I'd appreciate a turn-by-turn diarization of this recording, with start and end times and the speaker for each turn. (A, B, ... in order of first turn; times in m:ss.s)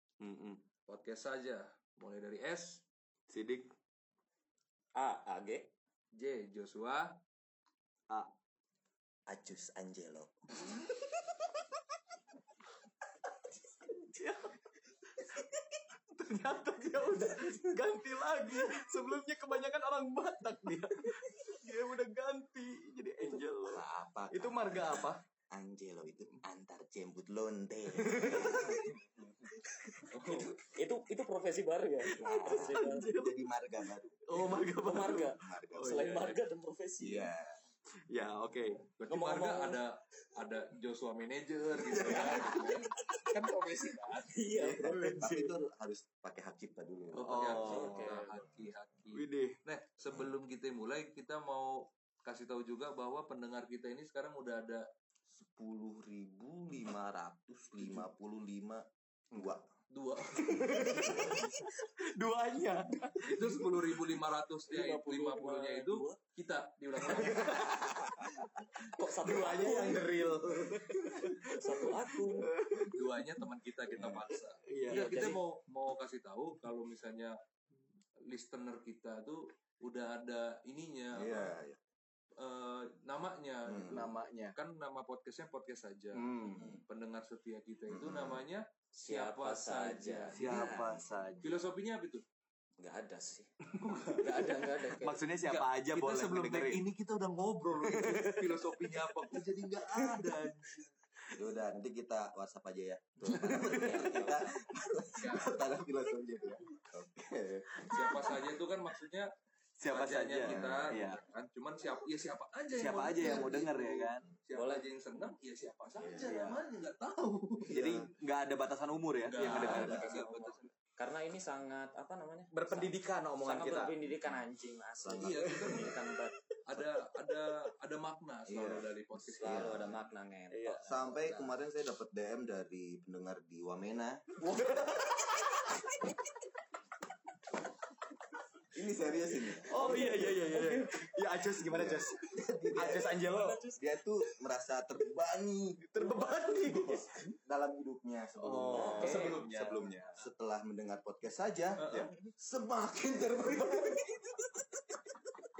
0:00.2-0:00.6 A
0:00.9-0:02.8 B
0:03.3-0:03.7 A
0:04.9-0:05.7 C
0:06.1-0:07.2 B
0:09.3-0:10.4 D
0:13.8-0:25.2 A
0:23.6-0:28.9 D
0:27.9-0:30.4 A
0:30.1-0:30.5 B
0:30.2-0:30.6 D
0:30.6-0:33.1 C
0:32.0-0:33.4 A
0:32.2-0:36.3 D
0:34.2-0:36.4 A
0:34.5-0:37.3 C
0:37.0-0:37.6 D
0:38.1-0:38.9 A
0:39.0-0:44.3 B
0:39.1-0:39.8 C
0:41.8-0:45.5 A
0:42.1-0:42.8 C
0:44.1-0:45.4 C
0:44.5-0:47.8 D
0:47.1-0:54.8 B
0:47.2-0:48.2 A
0:47.6-0:48.4 C
0:49.1-0:49.6 A
0:55.3-0:59.7 D
0:57.8-0:58.0 A
0:59.9-1:00.7 B
1:00.2-1:04.0 A
1:00.6-1:01.5 D
1:03.2-1:07.7 B
1:04.7-1:06.2 C
1:07.0-1:13.4 A
1:08.8-1:10.3 C
1:11.3-1:12.5 C
1:12.8-1:17.4 B
1:13.9-1:15.4 A
1:14.9-1:15.4 C
1:18.3-1:21.6 B
1:21.1-1:21.8 D
1:22.4-1:30.8 B
1:23.6-1:24.1 D
1:23.9-1:24.6 A
1:26.1-1:26.8 A
1:26.5-1:26.8 D
1:27.9-1:28.5 D
1:28.9-1:30.9 C
1:30.3-1:31.7 A
1:30.6-1:31.2 D
1:31.4-1:32.2 B
1:32.8-1:33.5 C
1:33.7-1:36.8 A
1:34.0-1:35.2 C
1:35.4-1:40.9 B
1:37.8-1:40.4 A
1:41.3-1:48.4 D
1:43.2-1:44.4 A
1:43.6-1:44.4 C
1:45.2-1:45.6 A
1:47.8-1:48.4 A
1:47.9-1:49.3 B
1:49.8-1:51.2 A
1:49.8-1:57.8 B
1:50.4-1:51.0 D
1:52.7-1:54.3 A
1:53.2-1:53.7 D
1:54.5-1:54.9 C
1:56.0-1:56.3 D
1:56.2-1:56.6 A
1:57.6-1:58.1 D
1:57.7-2:00.6 A
1:59.2-2:00.7 B
1:59.4-2:06.4 C
1:59.4-2:00.1 D
2:02.5-2:04.0 A
2:04.0-2:04.4 D
2:05.0-2:05.9 D
2:05.2-2:06.0 B
2:05.6-2:06.1 A
2:06.6-2:09.7 B
2:06.7-2:07.6 A
2:08.5-2:10.0 D
2:09.3-2:10.8 C
2:10.5-2:11.5 A
2:10.8-2:14.2 D
2:14.4-2:16.1 A
2:18.7-2:20.6 D
2:19.4-2:23.8 A
2:19.7-2:21.0 C
2:21.6-2:34.3 D
2:23.3-2:23.8 C
2:25.8-2:27.3 A
2:28.4-2:30.2 A
2:28.7-2:29.4 C
2:29.0-2:30.1 B
2:31.8-2:32.1 B
2:33.5-2:34.6 A